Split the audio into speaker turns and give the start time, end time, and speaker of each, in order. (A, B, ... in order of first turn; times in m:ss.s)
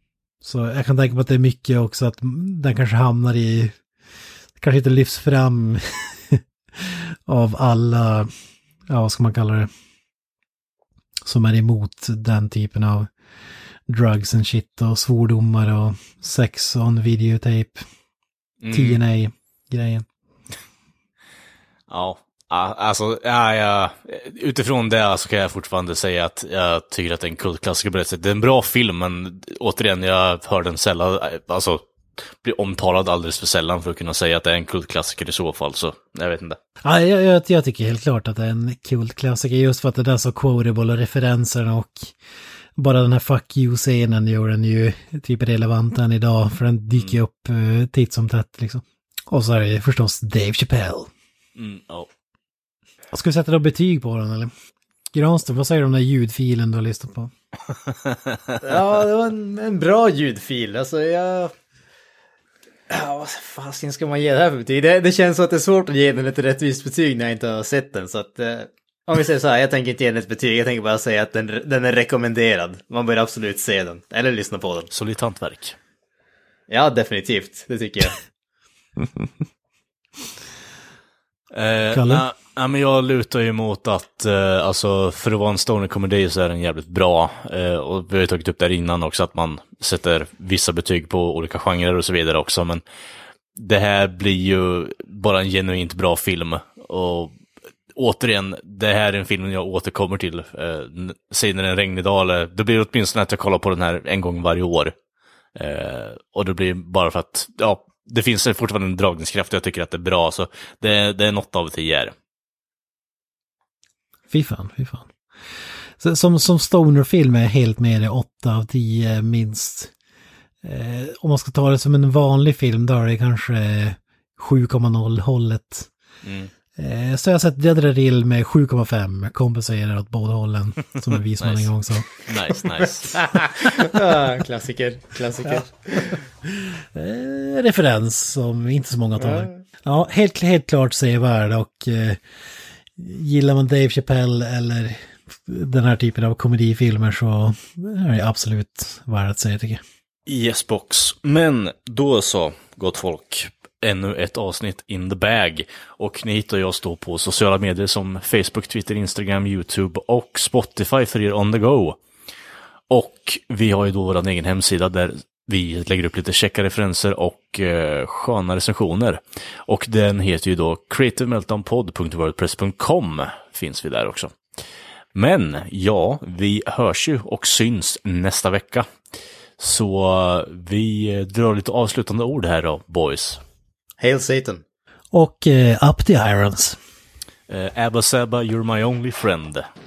0:00.4-0:03.8 A
0:04.6-0:08.3 A
0:08.9-0:09.7 A
0:11.2-0:13.1 A
0:13.9-0:17.8 A
0:18.6-0:19.0 B
0:18.7-0:20.1 A
0:21.9-0:31.8 B
0:32.4-0:36.6 B
0:36.8-0:42.2 A
0:42.8-0:51.1 A
0:51.6-0:52.1 B
0:53.1-0:54.5 A
0:55.1-0:57.3 A
0:57.9-0:58.6 B
0:58.6-1:01.5 C
1:02.9-1:14.9 C
1:14.9-1:15.8 B
1:16.7-1:18.2 C
1:21.5-1:32.8 B
1:21.9-1:22.2 A
1:33.6-1:37.4 B
1:38.0-1:45.0 B
1:45.6-1:52.1 B
1:54.3-1:55.1 A
1:56.0-1:59.9 A
2:00.6-2:05.9 A
2:06.2-2:06.5 B
2:06.8-2:12.1 A
2:11.4-2:13.3 B
2:13.2-2:16.2 C
2:15.4-2:22.2 A
2:19.2-2:19.6 C
2:23.0-2:29.8 A
2:30.3-2:42.0 B
2:42.9-2:54.4 B
2:55.2-2:58.9 B
2:59.6-3:03.4 B
3:04.0-3:04.6 C
3:05.1-3:06.8 A
3:07.5-3:09.7 B